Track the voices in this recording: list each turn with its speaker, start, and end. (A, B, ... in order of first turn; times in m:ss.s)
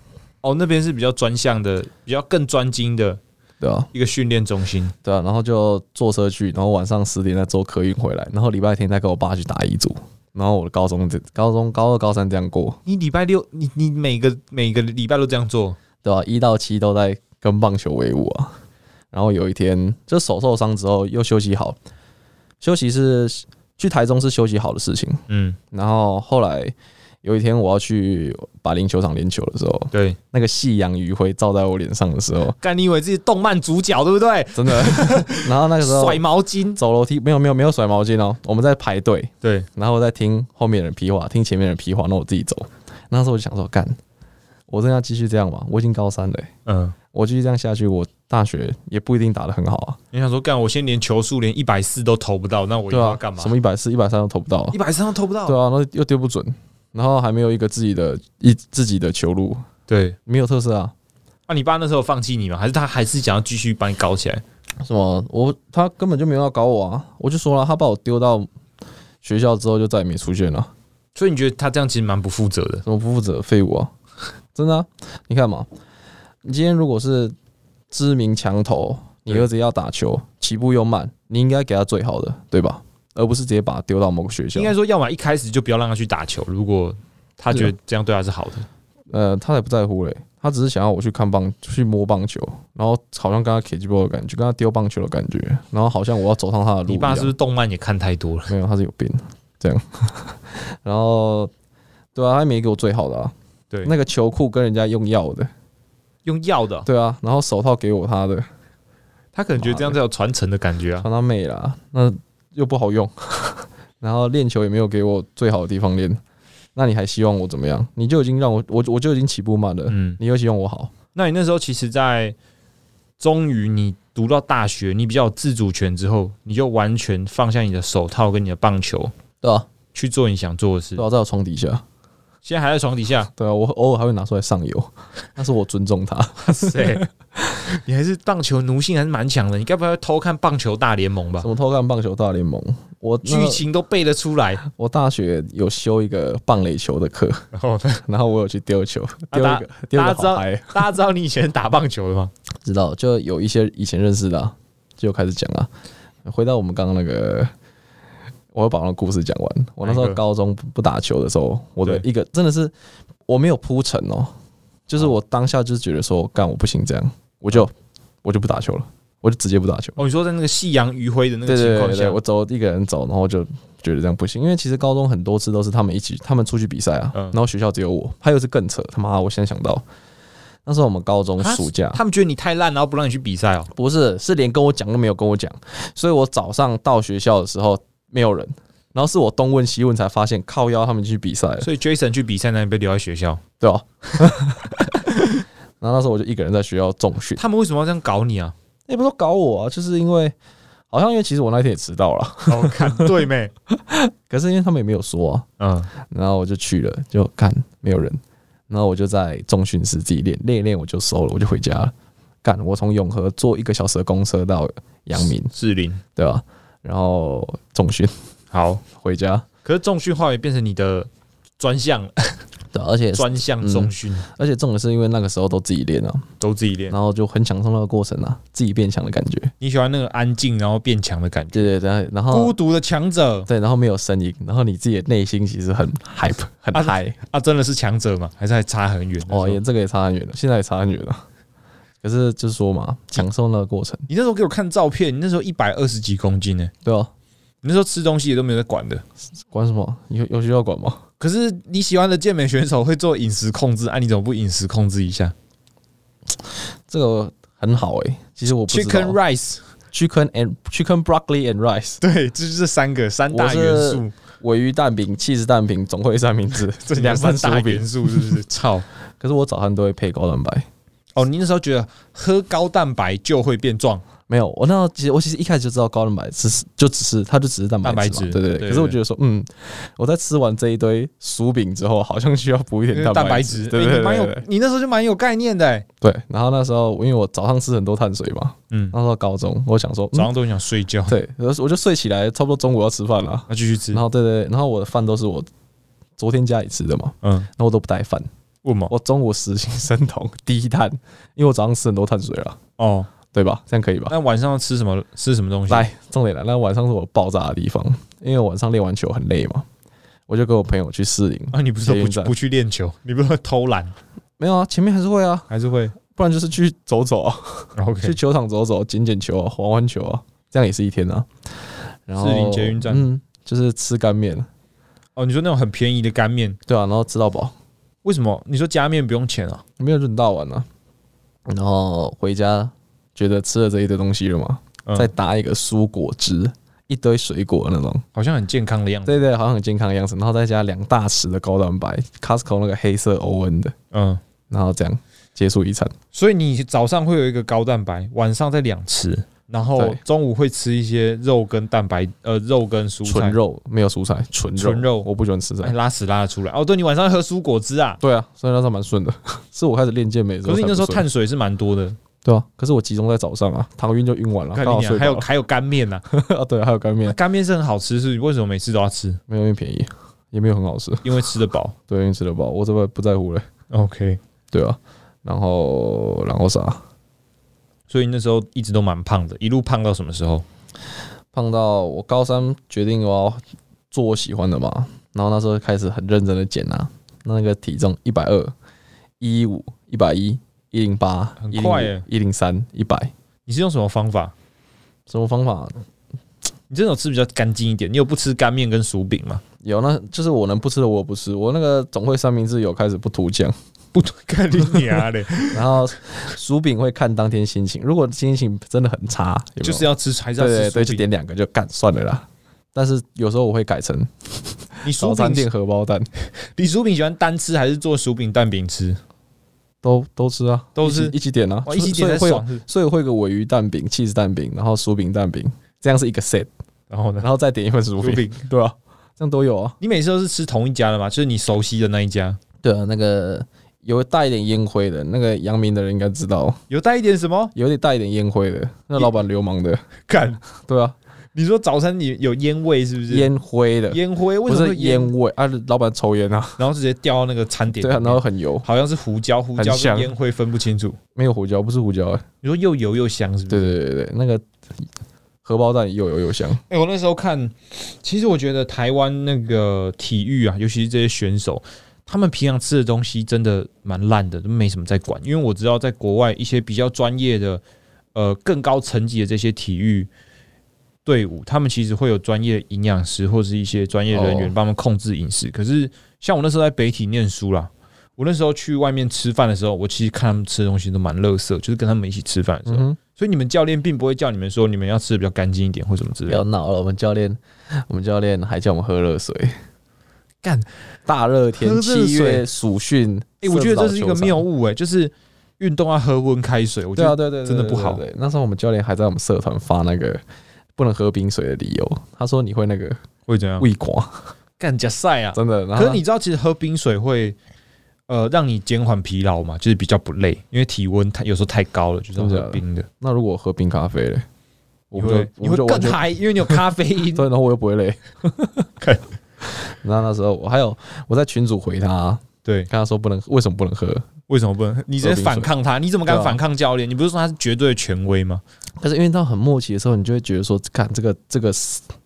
0:00.4-0:03.2 A
0:03.6-0:03.9 B
0:03.9-0:04.9 A
0:05.0-0:12.8 B
0:12.8-0:15.8 A
0:16.0-0:18.6 B
0:19.1-0:21.8 B
0:22.6-0:32.6 B
0:25.3-0:25.6 A
0:29.9-0:30.2 A
0:32.6-0:36.8 A
0:34.5-0:36.2 B
0:36.7-0:44.0 B
0:44.7-0:46.5 B
0:46.6-0:46.9 A
0:47.1-0:50.0 B
0:50.1-0:53.5 A
0:52.9-0:54.8 B
0:54.7-0:55.6 A
0:55.4-0:59.6 B
0:59.9-1:00.2 A
1:00.2-1:00.9 B
1:01.5-1:04.4 A
1:04.8-1:08.5 B
1:09.2-1:10.7 B
1:11.1-1:12.8 A
1:12.8-1:13.9 B
1:14.5-1:15.7 B
1:16.4-1:17.3 B
1:17.9-1:24.7 B
1:24.5-1:28.7 A
1:29.1-1:37.3 B
1:36.9-1:38.5 A
1:38.5-1:41.5 B
1:42.1-1:45.5 B
1:46.2-1:46.9 A
1:46.8-1:48.5 B
1:49.3-1:51.0 A
1:49.6-1:50.0 B
1:51.0-1:56.2 B
1:56.7-2:00.9 B
1:59.9-2:00.2 A
2:01.1-2:02.3 A
2:03.2-2:09.1 A
2:09.4-2:09.7 B
2:09.9-2:11.0 A
2:11.0-2:11.8 B
2:12.4-2:13.3 A
2:13.4-2:17.6 B
2:16.4-2:17.0 A
2:17.7-2:21.5 A
2:21.4-2:23.6 B
2:23.2-2:24.6 A
2:24.6-2:27.4 B
2:27.5-2:28.0 A
2:28.0-2:30.8 B
2:29.3-2:32.3 A
2:32.6-2:35.7 B
2:36.2-2:37.5 B
2:38.5-2:42.7 B
2:39.8-2:40.2 A
2:43.3-2:44.3 B
2:44.9-2:47.7 B
2:48.2-2:50.0 B
2:50.0-2:52.2 A
2:51.4-2:59.8 B
3:00.6-3:02.0 B
3:01.4-3:03.7 A
3:03.7-3:11.7 B
3:11.6-3:13.4 A
3:13.6-3:14.8 B
3:14.1-3:15.4 A
3:15.8-3:17.4 B
3:17.4-3:18.5 A
3:18.9-3:20.3 B
3:20.9-3:25.5 B
3:22.5-3:23.5 A
3:25.6-3:25.9 A
3:26.1-3:31.9 B
3:32.4-3:35.5 B
3:35.5-3:36.0 A
3:36.2-3:38.1 B
3:38.5-3:38.8 A
3:39.0-3:39.4 B
3:39.6-3:41.1 A
3:41.6-3:42.4 A
3:42.7-3:46.2 B
3:43.1-3:44.2 A
3:46.4-3:47.0 A
3:46.9-3:49.5 B
3:49.6-3:51.7 A
3:51.5-3:52.6 B
3:52.3-3:53.5 A
3:53.5-3:57.2 B
3:56.7-3:59.6 A
3:59.3-4:01.2 B
4:02.0-4:04.1 B
4:04.1-4:06.7 A
4:06.8-4:07.1 B
4:07.6-4:09.0 A
4:09.5-4:11.0 B
4:11.2-4:15.3 A
4:16.9-4:19.2 B
4:18.7-4:19.6 A
4:19.9-4:22.0 B
4:22.0-4:24.1 A
4:23.3-4:28.4 B
4:26.8-4:28.8 A
4:29.2-4:30.7 B
4:31.2-4:34.0 A
4:34.3-4:44.4 B
4:37.8-4:39.0 A
4:42.9-4:45.8 A
4:46.0-4:50.3 B
4:50.1-4:51.2 A
4:51.1-4:55.5 B
4:53.5-4:54.0 A
4:56.2-4:58.3 B
4:57.2-4:57.5 A
4:58.6-4:58.9 A
4:58.9-5:02.6 B
5:02.8-5:03.1 A
5:03.3-5:04.1 B
5:04.1-5:05.8 A
5:05.7-5:09.6 B
5:10.3-5:12.3 B
5:11.5-5:13.9 A
5:14.4-5:15.5 B
5:15.5-5:15.9 A
5:16.1-5:21.3 B
5:17.8-5:18.2 A
5:22.1-5:24.5 B
5:22.2-5:23.0 A
5:25.2-5:26.6 A
5:26.7-5:27.5 B
5:28.0-5:29.6 A
5:29.8-5:30.7 B
5:31.5-5:38.0 B
5:38.1-5:39.2 A
5:39.0-5:43.7 B
5:43.9-5:44.2 A
5:44.5-5:45.9 B
5:46.1-5:53.4 A
5:53.0-5:55.7 B
5:54.6-5:55.1 A
5:55.6-5:58.0 A
5:58.0-6:01.0 B
6:00.4-6:02.0 A
6:02.2-6:05.3 B
6:04.5-6:06.0 A
6:06.1-6:07.2 B
6:07.0-6:09.2 A
6:09.3-6:11.1 B
6:11.0-6:11.7 A
6:11.9-6:13.4 B
6:13.7-6:14.2 A
6:14.5-6:16.8 B
6:17.9-6:20.4 A
6:21.3-6:28.5 B
6:29.2-6:33.1 B
6:31.4-6:32.0 A
6:33.4-6:34.3 A
6:35.1-6:35.8 B
6:36.7-6:39.4 A
6:39.6-6:43.5 B
6:43.9-6:45.8 A
6:45.5-6:56.1 B
6:49.6-6:51.0 A
6:54.8-6:55.5 A
6:56.5-6:59.0 A
6:59.8-7:06.5 B
7:00.8-7:01.1 A
7:01.6-7:02.6 A
7:06.9-7:07.3 A
7:07.2-7:09.8 B
7:08.0-7:08.4 A
7:09.8-7:12.4 A
7:12.6-7:16.6 B
7:16.7-7:17.5 A
7:17.5-7:19.8 B
7:20.1-7:20.4 A
7:20.6-7:21.0 B
7:21.3-7:23.3 A
7:23.1-7:26.6 B
7:23.9-7:25.1 A
7:26.6-7:31.0 A
7:27.8-7:28.6 B
7:29.6-7:30.1 B
7:31.1-7:32.2 B
7:32.4-7:33.8 A
7:33.5-7:34.4 B
7:35.4-7:36.6 B
7:36.7-7:47.6 A
7:48.1-7:50.1 A
7:51.0-8:06.4 A
7:54.1-7:54.5 B
8:02.7-8:03.0 B
8:06.3-8:09.6 B
8:11.0-8:14.4 B
8:11.6-8:12.4 A
8:13.4-8:18.0 A
8:17.0-8:20.2 B
8:20.8-8:23.0 B
8:23.3-8:23.7 A
8:23.6-8:24.3 B
8:24.6-8:27.4 A
8:25.3-8:26.0 B
8:28.1-8:32.9 A
8:32.2-8:34.2 B
8:34.9-8:36.6 B
8:34.9-8:37.2 A
8:37.1-8:38.7 B
8:39.5-8:44.1 B
8:44.3-8:48.4 A
8:45.0-8:45.5 B
8:46.0-8:46.4 B
8:48.8-8:51.9 B